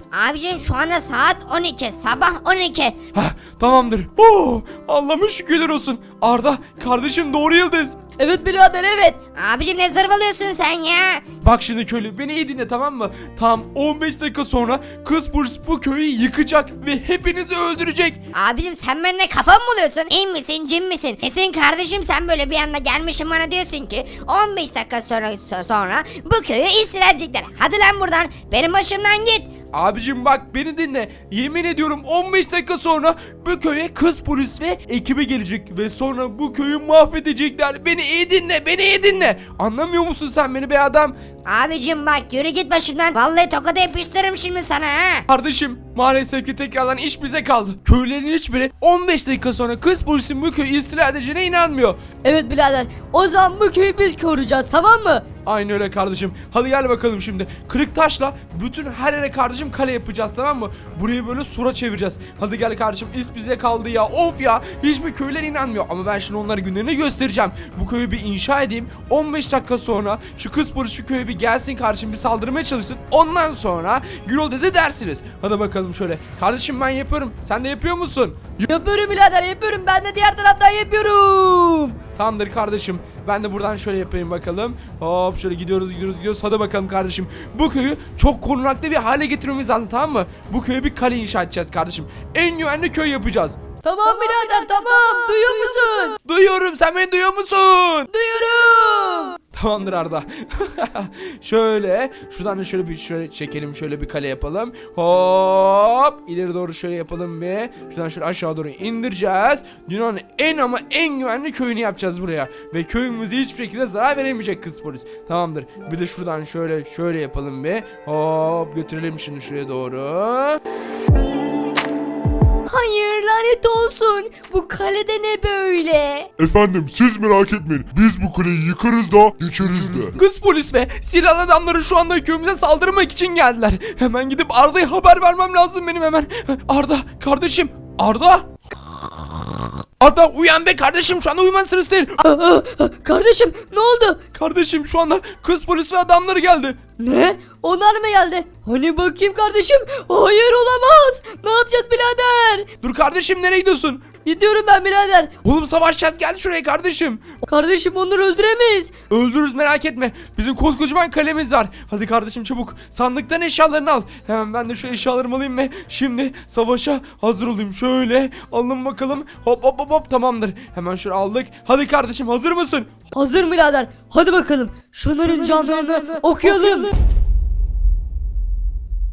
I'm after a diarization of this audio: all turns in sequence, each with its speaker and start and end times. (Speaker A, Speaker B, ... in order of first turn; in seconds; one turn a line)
Speaker A: 0.1-3.0
Speaker B: 3.1-8.0
Speaker C: 8.2-9.2
Speaker A: 9.4-11.2
Speaker B: 11.4-18.2
Speaker A: 18.4-29.5
Speaker B: 29.7-41.2
Speaker A: 41.5-45.2
Speaker B: 45.3-52.0
Speaker C: 52.2-55.3
Speaker B: 55.5-78.6
Speaker C: 78.6-82.0
Speaker B: 82.2-93.6
Speaker C: 93.8-96.2
Speaker B: 96.2-98.1
Speaker C: 98.1-99.4
Speaker B: 99.5-120.6
Speaker C: 122.7-126.3
Speaker D: 126.4-130.1
Speaker B: 130.0-138.5
Speaker B: 140.0-142.2
Speaker C: 142.2-144.2
Speaker B: 144.3-146.8
Speaker C: 147.0-152.7
Speaker B: 152.8-154.1
Speaker C: 154.2-155.3
Speaker B: 155.4-157.3
Speaker C: 157.4-158.9
Speaker B: 159.1-172.9
Speaker C: 173.1-176.9